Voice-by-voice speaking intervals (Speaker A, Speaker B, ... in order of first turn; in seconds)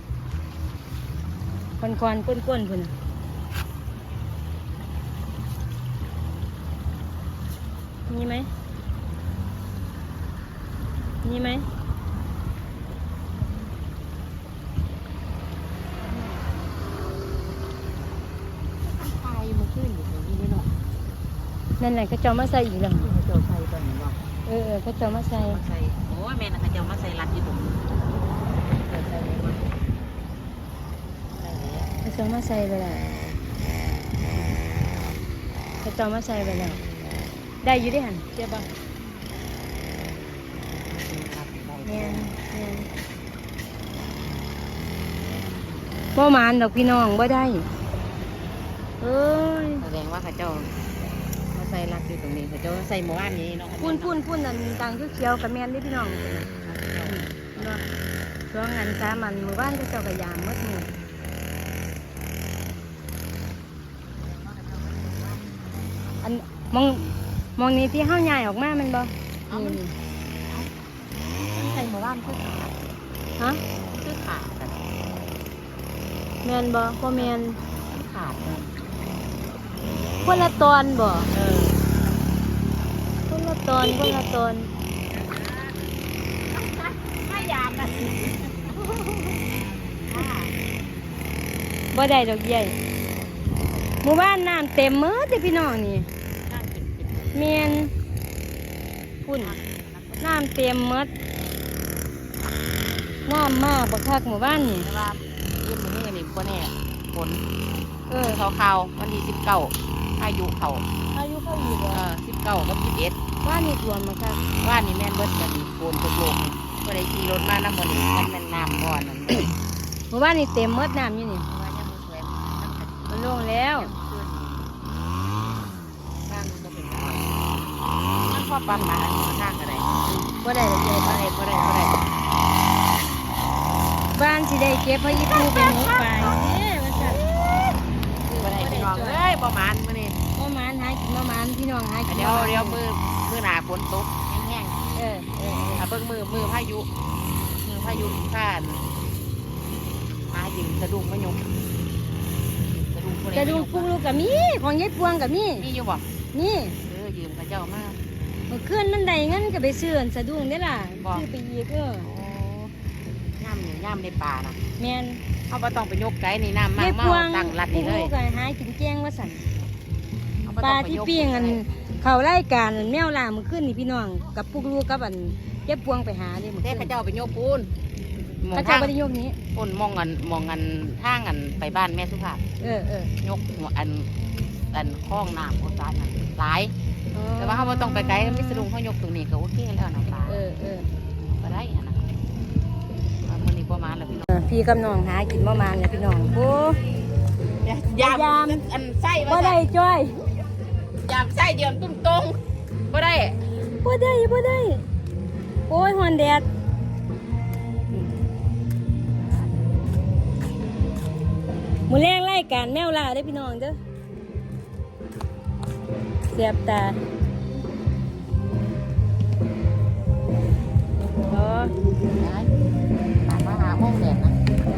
Speaker A: 1.8-2.9, 8.1-8.5, 11.2-11.7, 16.1-16.4, 21.8-23.1, 24.5-25.6, 32.0-33.1, 35.8-36.8, 37.6-38.7, 41.8-42.9, 46.1-47.7, 49.0-49.8, 53.8-56.5, 57.0-57.8, 58.5-60.9, 66.2-67.0, 67.6-69.9, 76.4-77.6, 80.2-81.3, 83.3-84.7, 91.9-92.8, 94.0-96.1, 97.3-97.9, 99.2-99.6, 100.2-101.1, 103.3-104.9, 108.1-108.4, 111.1-112.0, 113.4-114.4, 120.1-121.5, 123.1-123.9, 130.1-131.3, 134.1-137.2, 138.2-139.2, 140.3-142.8, 144.9-145.8, 153.3-155.7, 156.3-156.8, 158.5-162.1, 164.8-165.2, 166.8-169.4, 170.6-176.9, 178.5-179.4, 182.6-183.1, 187.1-188.7, 190.2-190.9, 194.3-196.8, 198.0-198.6, 199.2-200.3, 203.8-204.8, 205.7-206.4, 211.9-213.8, 216.3-217.0, 221.3-221.7
Speaker B: 18.8-20.7, 22.9-24.2, 25.4-27.9, 28.8-29.8, 31.3-31.9, 40.2-42.3, 49.8-50.8, 51.5-54.1, 56.6-57.8, 64.2-65.7, 69.5-69.8, 70.5-70.8, 71.4-72.8, 73.8-74.9, 77.2-78.8, 81.3-81.8, 83.8-84.2, 85.2-85.7, 86.5-89.4, 90.1-90.5, 96.4-97.4, 99.4-100.3, 104.7-107.4, 108.2-110.8, 111.9-113.2, 114.6-119.5, 121.5-124.8, 126.2-127.5, 128.2-130.0, 131.0-132.1, 135.1-136.3, 137.1-137.7, 138.4-140.2, 142.1-144.8, 145.8-146.9, 147.6-148.8, 150.3-151.4, 152.7-153.9, 155.6-156.1, 156.8-158.0, 161.0-161.2, 162.0-162.7, 163.4-164.6, 165.5-168.1, 170.4-171.7, 176.6-177.7, 178.4-178.9, 179.5-182.4, 183.2-184.1, 184.7-186.7, 187.4-190.4, 191.2-192.0, 193.2-194.3, 197.6-199.6, 201.0-203.4, 222.2-222.5, 223.2-224.4